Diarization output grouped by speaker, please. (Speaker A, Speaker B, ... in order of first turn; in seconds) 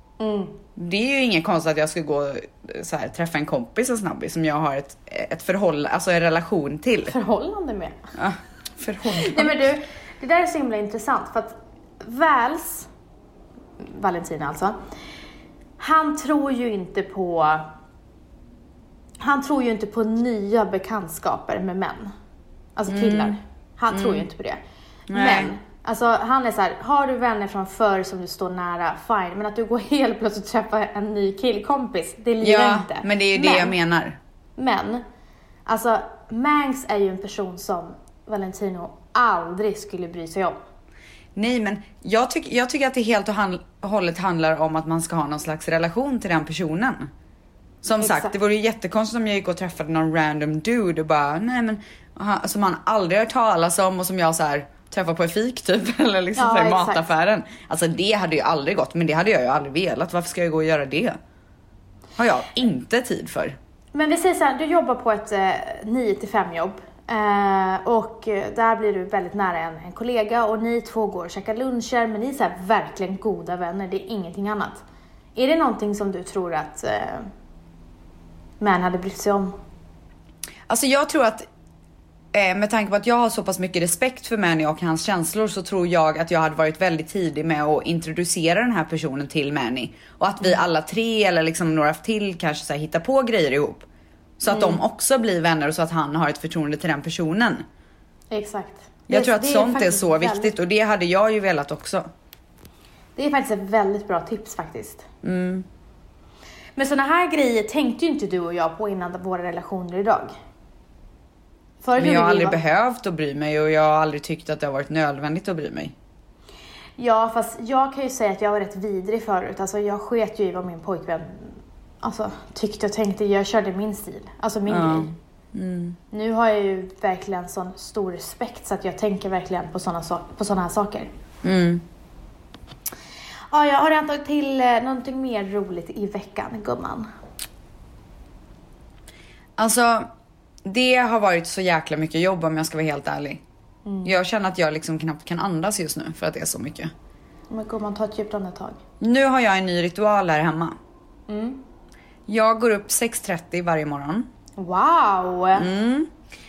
Speaker A: 0.2-0.6, 7.0-8.0, 9.1-12.9, 13.8-14.8, 15.8-17.7, 19.2-22.1, 22.8-33.7, 34.6-35.0, 35.6-40.6, 48.0-48.3, 56.4-57.0, 63.9-74.8, 75.3-77.3, 78.6-79.5, 94.5-94.8, 98.3-100.5, 103.2-105.0, 106.8-110.3, 111.8-112.6, 117.0-125.1, 126.1-131.1, 133.5-137.1, 143.8-144.1, 147.5-148.8, 151.3-151.6, 154.6-155.7
Speaker B: 0.8-7.1, 8.2-9.7, 22.9-23.4, 23.9-24.2, 25.1-25.5, 32.4-34.2, 41.3-47.1, 47.8-61.2, 62.2-63.5, 80.7-81.5, 82.3-93.8, 94.4-97.6, 99.1-102.1, 105.2-105.7, 112.0-115.9, 124.7-126.0, 131.4-131.8, 139.6-140.1, 140.6-143.4, 144.0-146.9, 149.0-150.8, 152.3-154.3, 155.6-156.1